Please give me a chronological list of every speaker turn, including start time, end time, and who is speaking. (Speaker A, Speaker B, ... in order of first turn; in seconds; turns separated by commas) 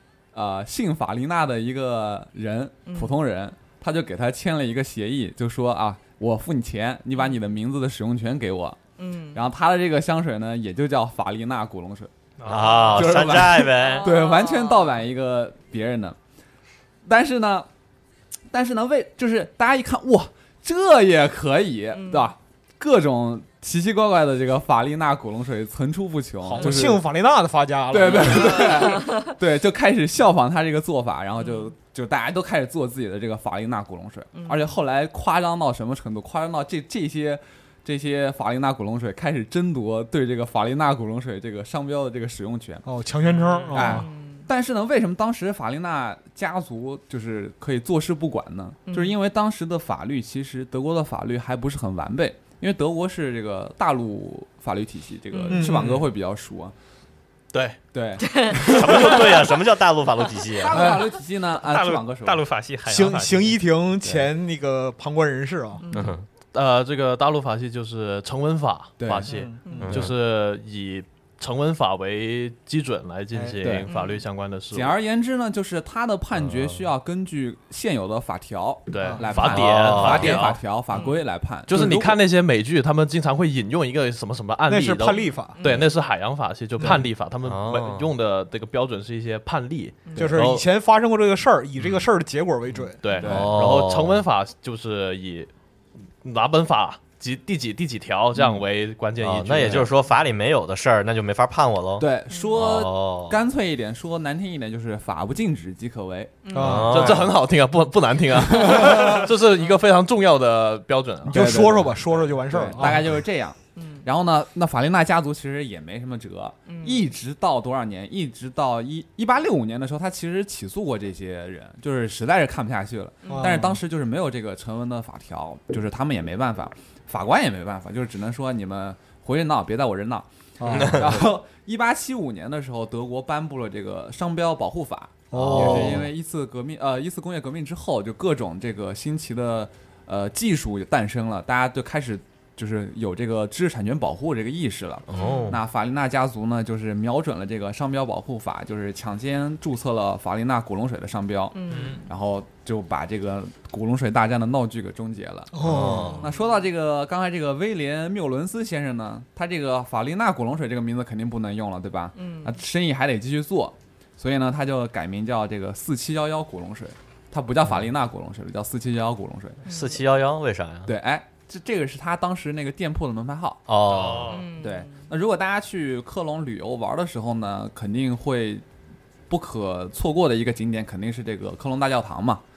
Speaker A: 0.3-8.8, Speaker B: 2.9-3.2, Speaker B: 9.0-9.4, Speaker A: 9.3-16.2, Speaker C: 12.4-13.3, Speaker D: 12.4-14.1, Speaker B: 13.7-14.9, Speaker A: 17.0-17.7, Speaker A: 18.5-27.0, Speaker B: 21.9-22.3, Speaker E: 26.4-28.8, Speaker A: 27.9-42.8, Speaker B: 28.1-29.3, Speaker B: 31.4-31.7, Speaker B: 34.3-34.7, Speaker E: 42.8-44.1, Speaker C: 43.2-43.9, Speaker A: 43.7-56.7, Speaker B: 43.8-44.5, Speaker B: 48.9-49.1, Speaker B: 55.3-55.7, Speaker E: 55.5-56.0, Speaker F: 57.5-57.8, Speaker A: 57.9-59.2, Speaker B: 58.2-58.6, Speaker D: 58.7-60.8, Speaker A: 60.6-62.4, Speaker E: 60.7-61.0, Speaker C: 61.6-63.6, Speaker E: 62.8-65.8, Speaker B: 65.8-66.1, Speaker D: 65.9-66.3, Speaker F: 66.5-74.9, Speaker A: 69.0-69.3, Speaker E: 69.2-69.9, Speaker B: 69.6-69.9, Speaker D: 69.8-70.1, Speaker A: 73.6-73.9, Speaker B: 73.9-74.2, Speaker A: 74.7-82.2, Speaker F: 78.9-80.6, Speaker E: 79.0-79.4, Speaker D: 79.6-80.4, Speaker B: 80.9-81.2, Speaker F: 81.7-90.7, Speaker E: 84.7-85.6, Speaker B: 85.5-85.9, Speaker E: 86.8-87.1, Speaker D: 87.4-88.1, Speaker B: 90.0-90.4, Speaker E: 90.2-93.0, Speaker F: 93.0-95.5, Speaker A: 93.2-93.8, Speaker D: 93.2-94.2, Speaker F: 96.2-99.9, Speaker D: 99.2-103.4, Speaker A: 102.0-107.2, Speaker B: 106.4-106.8, Speaker E: 106.5-106.9, Speaker D: 106.5-107.3, Speaker F: 106.9-111.5, Speaker A: 108.5-109.2, Speaker A: 111.2-169.6, Speaker E: 111.3-113.1, Speaker B: 113.8-114.0, Speaker B: 116.7-117.0, Speaker B: 123.2-123.6, Speaker E: 123.3-123.8, Speaker E: 130.6-131.1, Speaker D: 130.7-131.2, Speaker E: 135.3-136.0, Speaker D: 135.3-136.1, Speaker D: 145.1-145.6, Speaker B: 145.1-145.5, Speaker B: 151.5-152.1, Speaker C: 151.7-152.0, Speaker E: 155.5-156.1, Speaker D: 155.6-156.2, Speaker B: 155.9-156.6, Speaker B: 162.2-162.6, Speaker B: 169.7-170.0, Speaker D: 169.7-170.9, Speaker A: 170.8-173.7, Speaker D: 173.7-174.4, Speaker C: 173.9-174.4, Speaker B: 174.3-175.1, Speaker A: 174.6-178.6, Speaker A: 179.3-182.4